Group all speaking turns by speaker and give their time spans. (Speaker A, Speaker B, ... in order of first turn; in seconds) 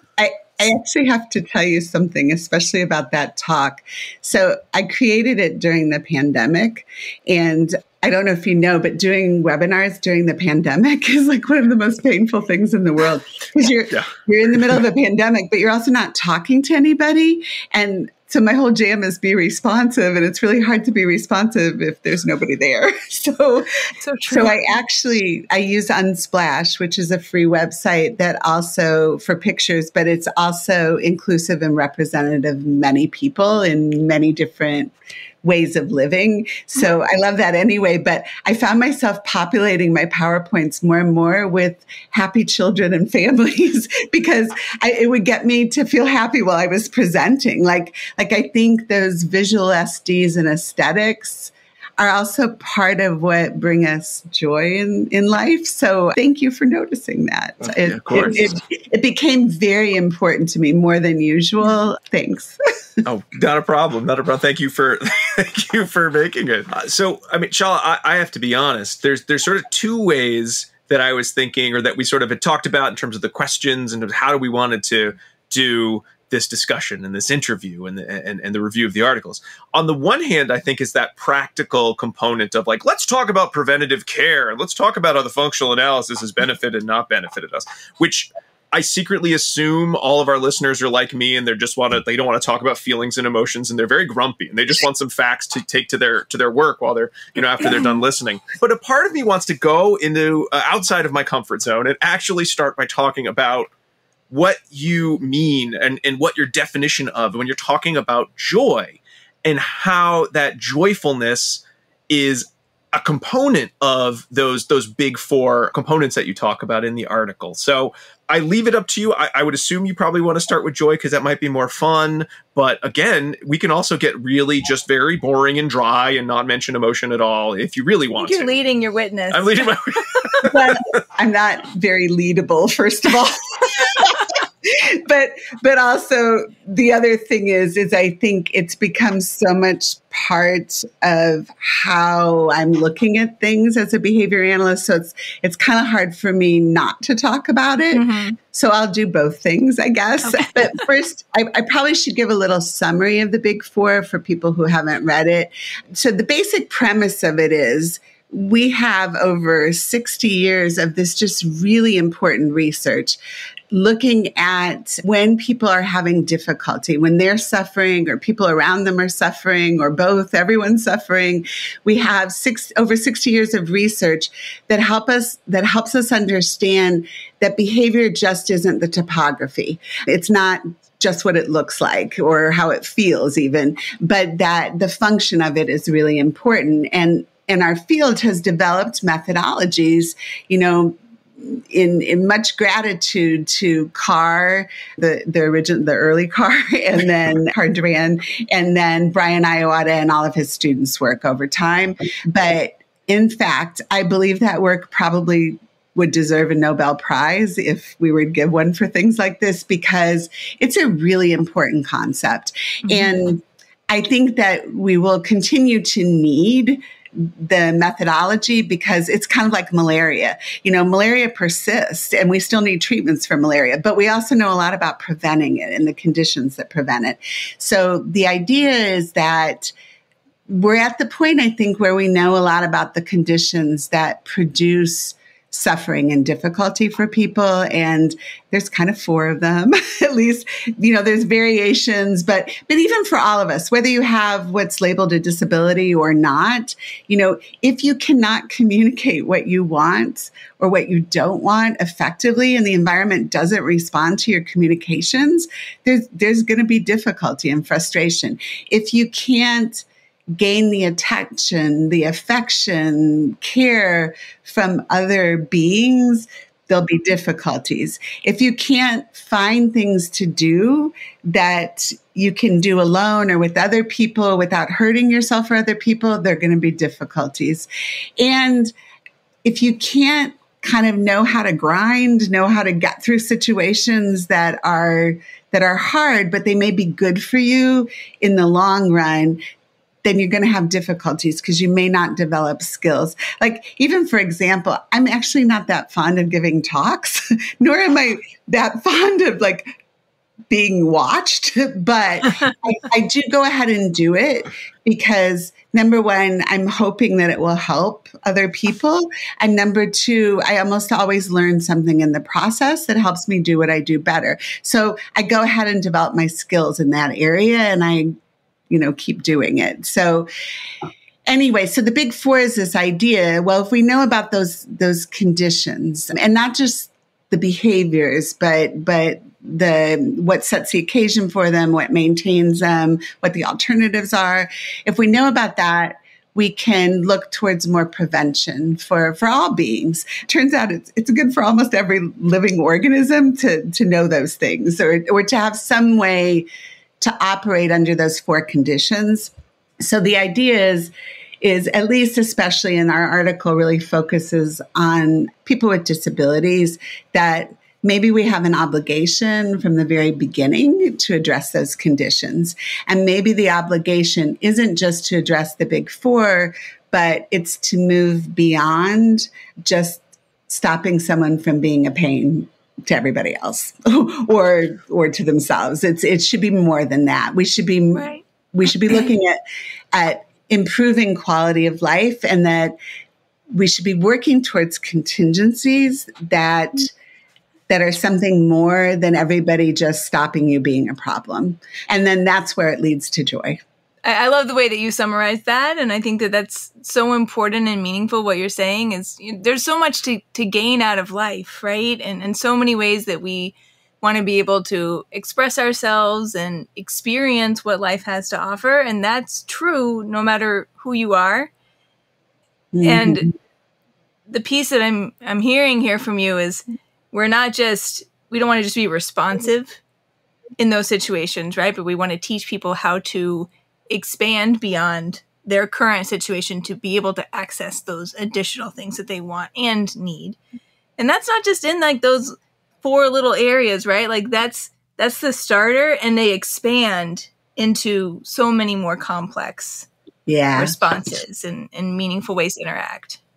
Speaker A: 0.2-23.7, 24.3-63.0, 130.5-163.2, 163.7-229.7, 230.5-259.9, 260.4-278.7, 279.4-289.4, 290.0-299.7, 300.5-318.1, 318.7-320.3, 321.3-346.5, 347.0-350.9, 351.4-379.4, 379.9-382.8, 383.5-386.9, 387.7-393.6, 412.7-413.3, 440.3-441.2
Speaker B: 24.0-24.6, 128.1-130.4, 147.9-148.4, 150.2-150.6, 212.8-213.2, 377.9-378.2, 394.0-411.5, 412.8-413.3, 414.3-419.8, 420.6-430.4, 431.0-439.9, 440.6-443.2
Speaker C: 57.7-58.6, 63.0-103.7, 104.3-128.5, 129.3-130.8